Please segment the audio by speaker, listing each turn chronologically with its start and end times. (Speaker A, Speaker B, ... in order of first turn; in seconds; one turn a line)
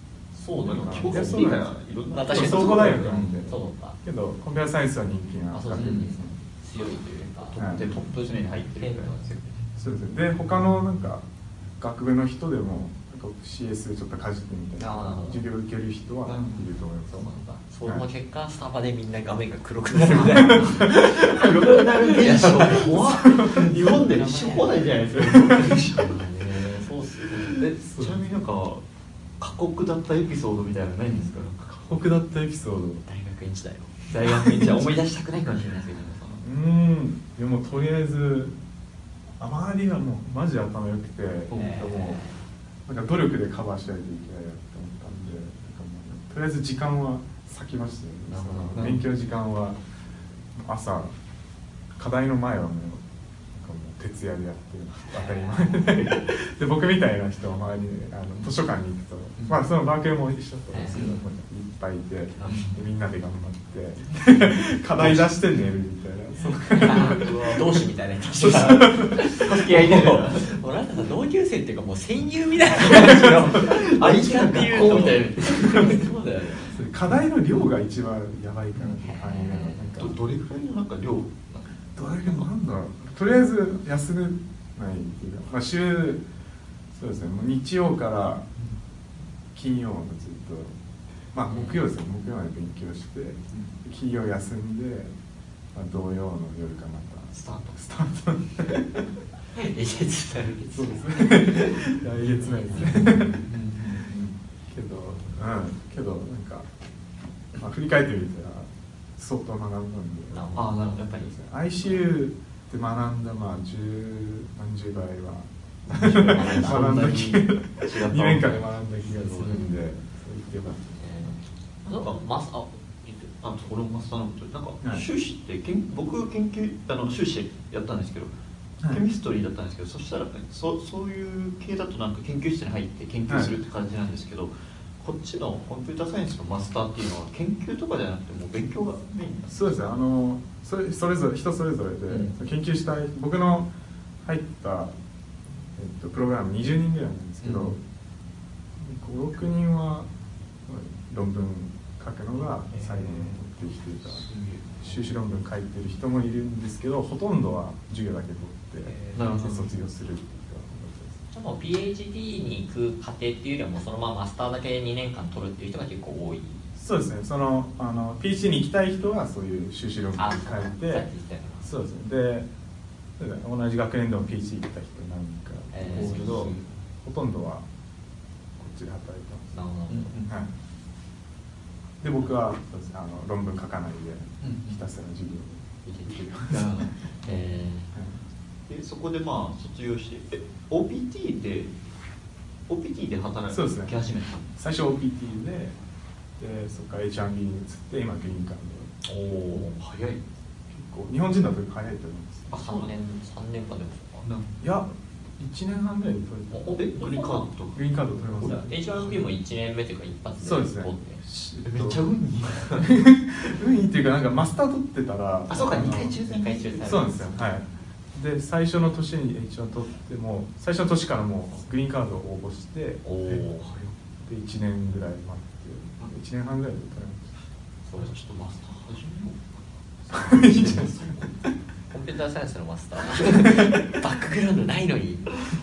Speaker A: 0.3-1.6
Speaker B: 0.5-3.5
Speaker C: 0.6-1.7
Speaker A: 2.1-4.0
Speaker C: 2.3-6.3
Speaker A: 5.5-9.2
Speaker B: 5.7-6.1
Speaker B: 7.3-9.7
Speaker C: 7.6-7.8
Speaker C: 9.8-11.2
Speaker C: 11.8-17.3
Speaker A: 14.8-15.5
Speaker B: 16.2-16.6
Speaker A: 17.2-24.8
Speaker C: 19.9-21.2
Speaker B: 20.2-26.3
Speaker C: 23.2-24.0
Speaker C: 25.2-25.8
Speaker A: 25.8-27.7
Speaker B: 27.3-28.8
Speaker C: 27.8-28.2
Speaker B: 29.4-31.7
Speaker C: 31.6-33.0
Speaker A: 33.0-34.8
Speaker B: 34.1-36.4
Speaker C: 36.4-38.5
Speaker C: 39.4-42.2
Speaker B: 41.5-41.9
Speaker A: 41.5-42.3
Speaker C: 42.9-49.8
Speaker A: 48.3-48.9
Speaker B: 48.7-49.0
Speaker C: 50.5-51.1
Speaker C: 52.0-67.6
Speaker A: 55.1-55.9
Speaker A: 60.7-61.1
Speaker B: 60.9-61.2
Speaker A: 62.4-62.7
Speaker B: 62.4-62.8
Speaker B: 65.0-65.3
Speaker A: 66.7-76.8
Speaker B: 66.8-67.6
Speaker C: 68.4-69.3
Speaker B: 69.2-70.5
Speaker B: 72.9-76.0
Speaker C: 75.6-76.0
Speaker C: 76.6-80.2
Speaker A: 79.0-79.9
Speaker B: 80.0-82.4
Speaker C: 82.0-86.2
Speaker C: 86.9-88.5
Speaker C: 89.5-90.7
Speaker C: 91.3-95.1
Speaker A: 91.5-91.8
Speaker C: 95.7-99.0
Speaker B: 97.3-97.8
Speaker A: 99.5-103.5
Speaker C: 100.7-103.4
Speaker B: 102.7-104.3
Speaker C: 104.7-106.7
Speaker C: 107.5-121.0
Speaker A: 110.3-111.2
Speaker B: 110.5-111.3
Speaker A: 115.9-117.0
Speaker B: 116.0-119.6
Speaker A: 119.4-119.7
Speaker A: 121.0-123.3
Speaker B: 121.8-122.2
Speaker B: 123.4-128.3
Speaker B: 128.8-139.6
Speaker C: 133.3-133.5
Speaker C: 139.5-143.7
Speaker B: 142.1-142.3
Speaker C: 144.2-144.9
Speaker C: 145.7-147.8
Speaker B: 147.4-147.8
Speaker C: 148.8-150.1
Speaker C: 150.7-154.2
Speaker A: 152.7-153.2
Speaker B: 154.2-155.0
Speaker C: 154.8-161.2
Speaker A: 158.8-159.4
Speaker B: 159.1-159.7
Speaker A: 161.3-166.6
Speaker C: 166.8-171.1
Speaker A: 170.2-171.7
Speaker C: 171.6-172.5
Speaker C: 173.2-177.6
Speaker A: 175.7-176.6
Speaker B: 175.9-176.6
Speaker C: 178.6-179.5
Speaker A: 179.5-180.2
Speaker B: 179.9-180.3
Speaker C: 182.0-186.9
Speaker B: 184.4-184.8
Speaker A: 185.8-186.2
Speaker B: 186.5-187.3
Speaker A: 187.2-187.9
Speaker B: 188.7-191.7
Speaker B: 192.7-194.5
Speaker C: 193.5-193.9
Speaker C: 194.5-195.8
Speaker C: 196.4-198.9
Speaker B: 199.1-200.2
Speaker A: 199.1-199.8
Speaker C: 200.7-202.5
Speaker A: 202.5-204.2
Speaker B: 202.5-202.9
Speaker B: 204.2-204.5
Speaker C: 204.6-206.8
Speaker A: 206.5-207.5
Speaker B: 206.7-207.8
Speaker C: 207.7-208.7
Speaker A: 208.4-211.2
Speaker B: 208.4-209.3
Speaker C: 210.4-212.0
Speaker B: 211.6-212.9
Speaker C: 212.8-216.2
Speaker B: 215.5-217.1
Speaker A: 216.2-217.5
Speaker C: 216.8-223.4
Speaker A: 223.1-223.7
Speaker B: 223.2-223.9
Speaker C: 224.2-227.3
Speaker A: 227.9-228.1
Speaker B: 227.9-231.3
Speaker C: 230.1-231.0
Speaker A: 231.9-235.4
Speaker C: 233.2-233.9